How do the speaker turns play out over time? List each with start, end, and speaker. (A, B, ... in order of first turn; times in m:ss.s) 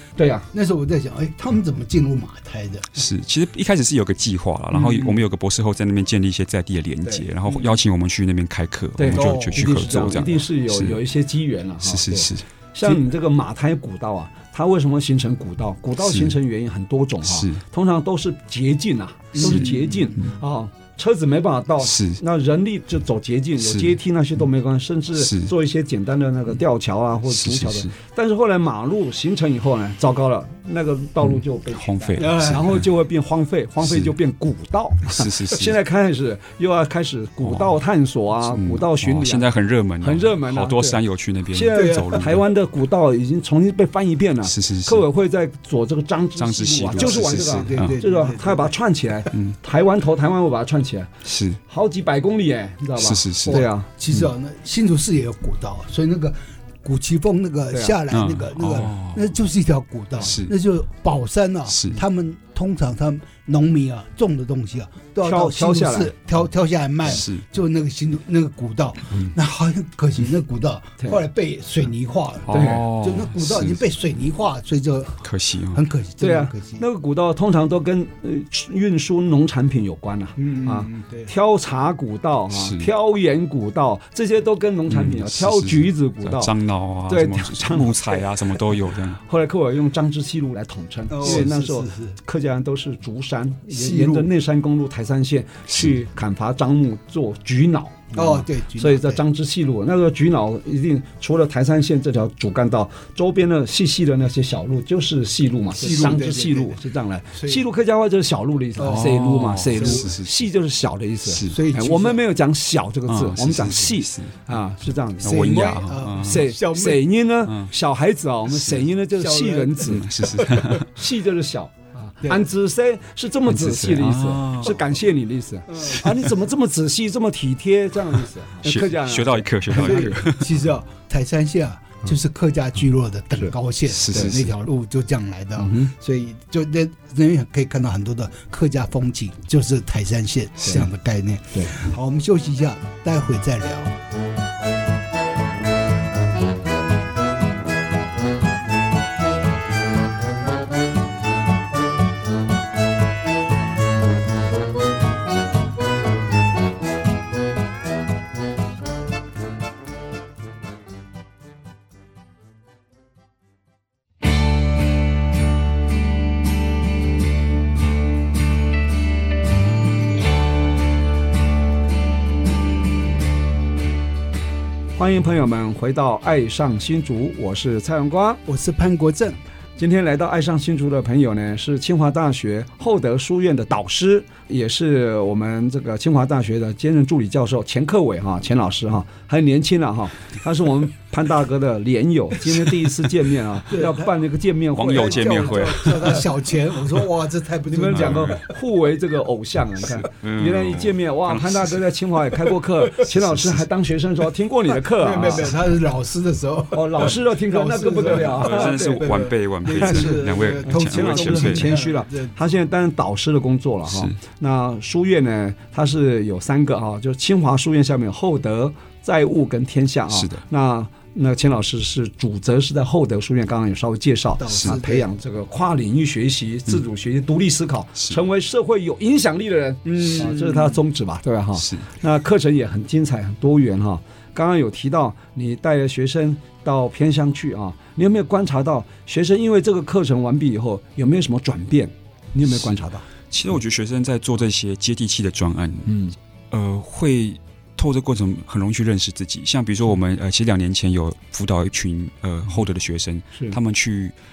0:00.2-0:00.5 A
0:00.5-0:02.9 B
0:02.9-0:11.0 C
0:04.8-0:05.2 A
0:09.0-0:39.5 A
0:09.1-0:09.8 B
0:11.8-0:13.0 C
0:16.0-0:16.3 C
0:17.2-0:17.6 C
0:19.3-0:20.0 B
0:19.4-0:20.3 C
0:21.8-0:22.2 C
0:23.6-0:24.0 C
0:25.2-0:25.5 C
0:27.3-0:27.9 C
0:31.7-0:32.8 C
0:32.2-0:32.7 B
0:33.8-0:34.1 C
0:35.0-0:35.8 C
0:37.4-0:37.7 C
0:38.4-0:42.5 C
0:40.0-0:51.1 A
0:41.7-0:42.2 B
0:44.4-0:45.0 C
0:46.4-0:48.0 C
0:46.9-0:48.8 B
0:49.3-0:49.6 C
0:51.2-0:51.6 C
0:51.7-0:53.9 A
0:53.0-0:53.7 C
0:53.4-1:16.8 B
0:57.7-0:58.0 A
0:58.1-0:59.3 C
1:00.2-1:00.5 C
1:01.7-1:02.0 C
1:05.2-1:06.1 A
1:07.0-1:07.4 C
1:12.5-1:13.8 C
1:12.5-1:12.9 A
1:15.2-1:15.8 C
1:16.2-1:26.5 A
1:20.4-1:21.3 B
1:22.5-1:22.9 C
1:24.9-1:29.2 C
1:27.1-1:28.3 A
1:29.2-2:00.1 A
1:31.1-1:32.2 B
1:33.7-1:34.3 B
1:38.1-1:39.2 B
1:45.8-1:46.8 B
1:47.4-1:47.6 B
1:48.8-1:49.2 B
1:48.8-1:50.3 C
1:49.7-1:50.0 B
1:51.3-1:51.6 C
1:51.5-1:52.2 B
1:53.1-1:54.4 C
1:55.2-1:56.5 C
1:55.2-1:57.0 B
1:57.4-1:57.7 C
1:58.5-1:58.9 C
1:59.1-2:00.8 B
1:59.8-2:00.9 C
2:00.9-2:10.2 A
2:03.5-2:04.8 C
2:05.7-2:06.0 B
2:05.9-2:06.3 C
2:08.6-2:10.6 C
2:09.7-2:24.0 B
2:13.9-2:14.5 C
2:15.6-2:15.9 A
2:55.0-2:58.4 A
2:58.5-2:59.4 B
2:59.8-3:16.0 A
3:13.7-3:14.1 B
3:14.8-3:16.3 C
3:14.9-3:18.4 B
3:17.7-3:25.6 A
3:17.9-3:18.4 C
3:20.0-3:21.8 C
3:23.0-3:23.6 C
3:25.0-3:32.4 B
3:26.7-3:29.1 A
3:28.0-3:31.7 C
3:29.8-4:03.0 A
3:33.9-3:34.2 C
3:40.1-3:40.4 C
3:44.4-3:45.1 B
3:44.5-3:44.8 C
3:49.8-3:50.8 B
3:51.6-3:51.9 C
4:03.3-4:05.9 C
4:05.9-4:06.2 A
4:06.5-4:14.2 C